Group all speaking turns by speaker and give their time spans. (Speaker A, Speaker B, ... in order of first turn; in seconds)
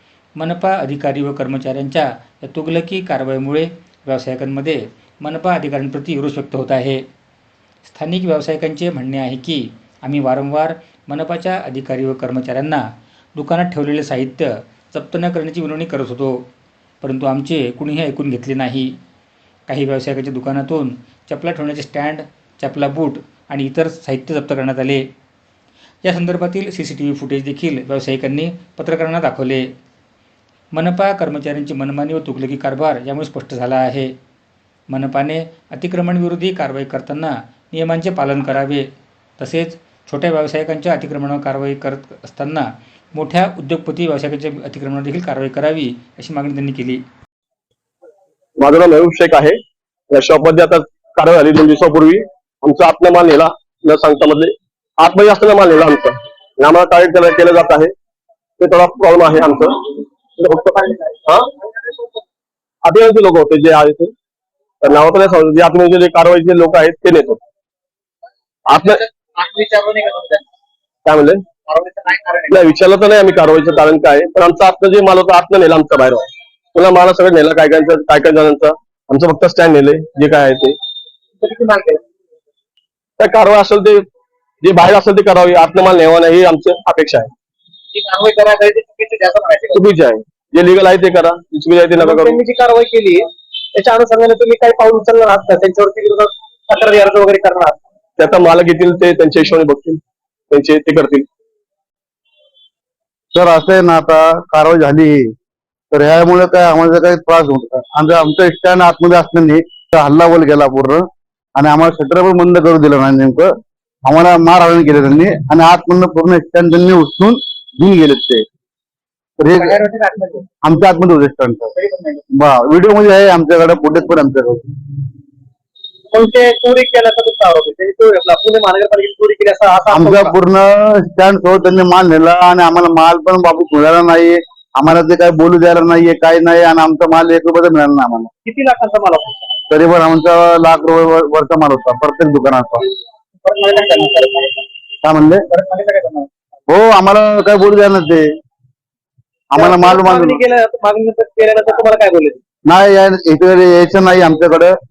Speaker A: 0.3-7.0, 7.8-16.5, 17.0-18.9, 19.7-25.1, 26.0-29.7, 30.7-34.1, 34.9-47.0
Speaker B: 48.6-49.6, 50.1-57.9, 58.6-61.5, 62.8-64.1, 64.8-67.4, 68.7-69.1, 71.0-71.4, 72.5-80.8, 83.2-84.0, 84.6-87.3, 89.7-92.4, 98.2-101.2
Speaker C: 69.4-70.4, 71.7-72.4, 81.4-82.0, 87.9-89.8, 92.0-97.8, 119.6-120.4, 126.1-130.3, 138.4-139.5, 143.4-144.6, 145.5-146.3, 149.6-152.4
Speaker D: 103.3-105.3, 105.9-111.0, 111.5-113.5, 114.0-118.4, 119.4-119.8, 120.6-121.7, 122.3-124.6, 129.9-138.3, 139.7-142.8, 145.0-145.4, 146.7-148.2, 149.5-150.4, 152.7-154.7